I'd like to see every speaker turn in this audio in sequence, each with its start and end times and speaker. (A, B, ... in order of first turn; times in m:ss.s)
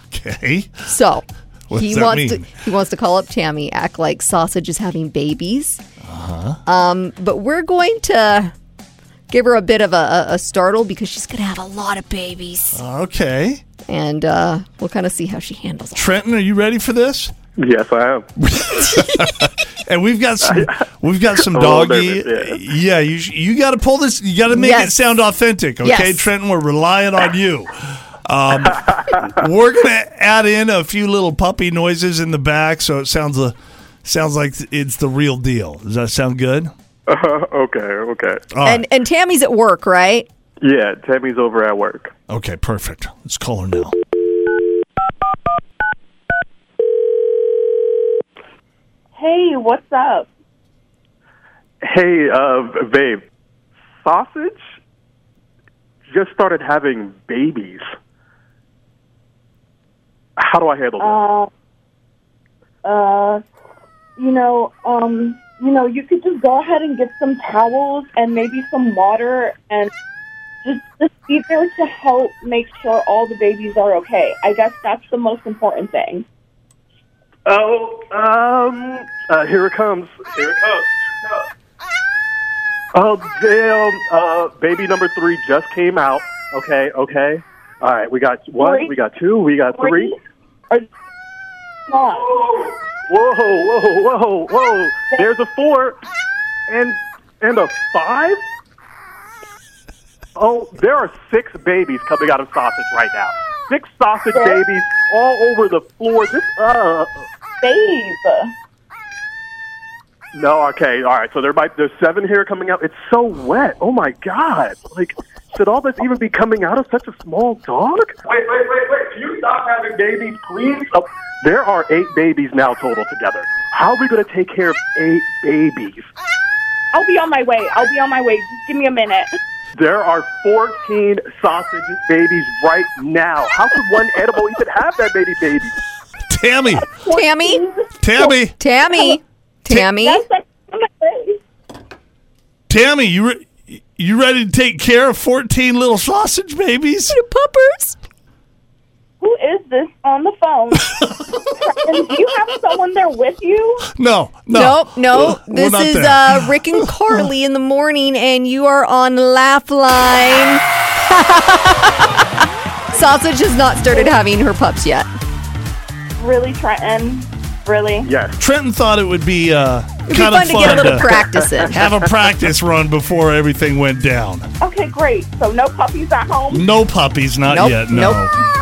0:00.1-0:00.9 A
0:00.9-0:05.8 B
0:01.7-0:02.5 A
0:06.0-0:06.6 A
0:06.6-0:08.5 B
0:09.3-0:12.8 B
0:12.7-0:13.6 A
0:13.9-0:16.2 B
0:16.0-0:17.3 A
0:17.6-0:18.3 C
0:18.4-0:36.7 A
0:21.5-0:22.6 C
0:24.5-0:25.2 B
0:25.8-0:26.3 B
0:37.1-0:38.4 C
0:38.5-0:38.8 A
0:38.6-0:40.3 B
0:40.6-0:42.1 C
0:42.3-0:44.0 A
0:49.2-0:50.3 D
0:51.8-0:53.2 C
0:54.0-0:54.6 C
0:56.1-0:57.9 C
1:00.4-1:01.2 C
1:01.0-1:01.5 D
1:02.8-1:03.4 D
1:04.2-1:09.9 D
1:10.6-1:16.3 D
1:17.5-1:21.5 C
1:22.9-1:30.1 C
1:28.6-1:29.0 D
1:29.7-1:30.2 D
1:31.9-1:32.3 D
1:32.1-1:36.0 C
1:36.7-1:38.4 C
1:40.4-1:47.2 C
1:44.3-1:44.6 D
1:47.6-1:48.5 D
1:50.3-2:06.1 C
2:06.9-2:09.3 D
2:09.8-2:15.7 C
2:16.3-2:16.9 A
2:16.9-2:18.4 D
2:17.1-2:17.6 B
2:18.0-2:18.6 A
2:18.6-2:20.2 B
2:18.9-2:19.2 D
2:20.0-2:21.4 D
2:22.7-2:27.2 A
2:27.1-2:28.0 B
2:29.2-2:31.0 D
2:31.6-2:33.9 D
2:34.0-2:37.3 A
2:34.5-2:41.9 B
2:42.9-2:45.1 B
2:46.2-2:48.1 D
2:48.0-2:48.4 C
2:48.4-2:54.5 A
2:50.1-2:51.9 B
2:54.6-2:56.7 D
2:56.5-2:58.3 A
2:57.5-2:58.2 B